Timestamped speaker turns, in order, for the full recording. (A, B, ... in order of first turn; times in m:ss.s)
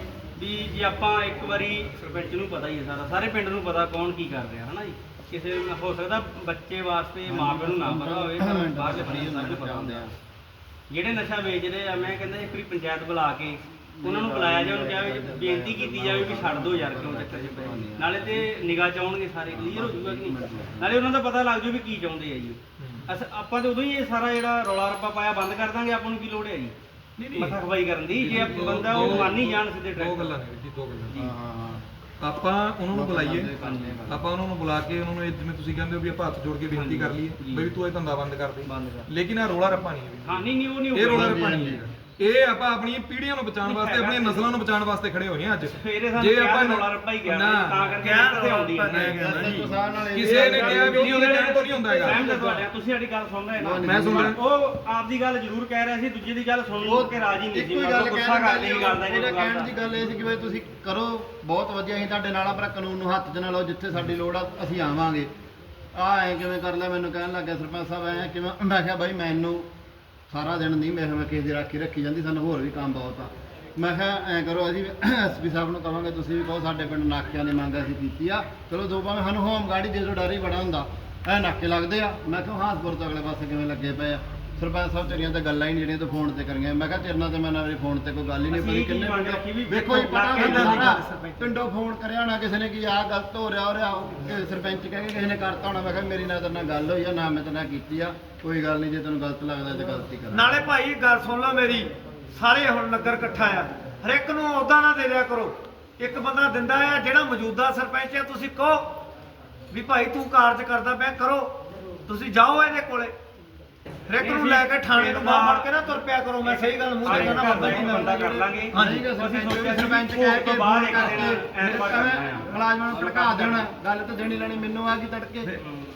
0:00.4-0:10.0 A
0:07.2-0:10.1 B
0:10.9-0:26.7 A
0:14.0-0:18.5 B
0:19.5-0:21.0 B
0:22.8-0:23.1 C
0:27.2-0:27.6 C
0:27.4-0:30.4 A
0:28.2-0:31.2 C
0:28.2-0:29.3 B
0:31.2-0:31.9 B
0:32.2-0:33.5 C
0:32.9-0:34.2 B
0:33.6-0:34.0 A
0:34.1-0:48.0 C
0:36.7-0:37.7 A
0:38.6-0:39.1 A
0:40.2-0:41.7 A
0:41.1-0:41.8 B
0:43.6-0:44.5 A
0:45.7-0:49.3 A
0:48.0-0:49.6 D
0:48.9-0:52.3 C
0:49.2-0:51.2 B
0:50.2-0:59.7 A
0:53.6-0:54.4 B
0:53.8-0:54.4 C
0:56.8-1:05.3 B
1:05.9-1:09.7 B
1:10.3-1:40.6 B
1:28.5-1:31.6 A
1:30.4-1:30.9 D
1:40.3-1:49.0 D
1:49.7-1:51.6 D
1:52.1-1:53.1 D
1:54.1-1:59.1 D
1:54.2-1:55.8 A
1:56.4-2:03.7 A
1:57.0-2:05.6 B
2:05.5-2:05.8 A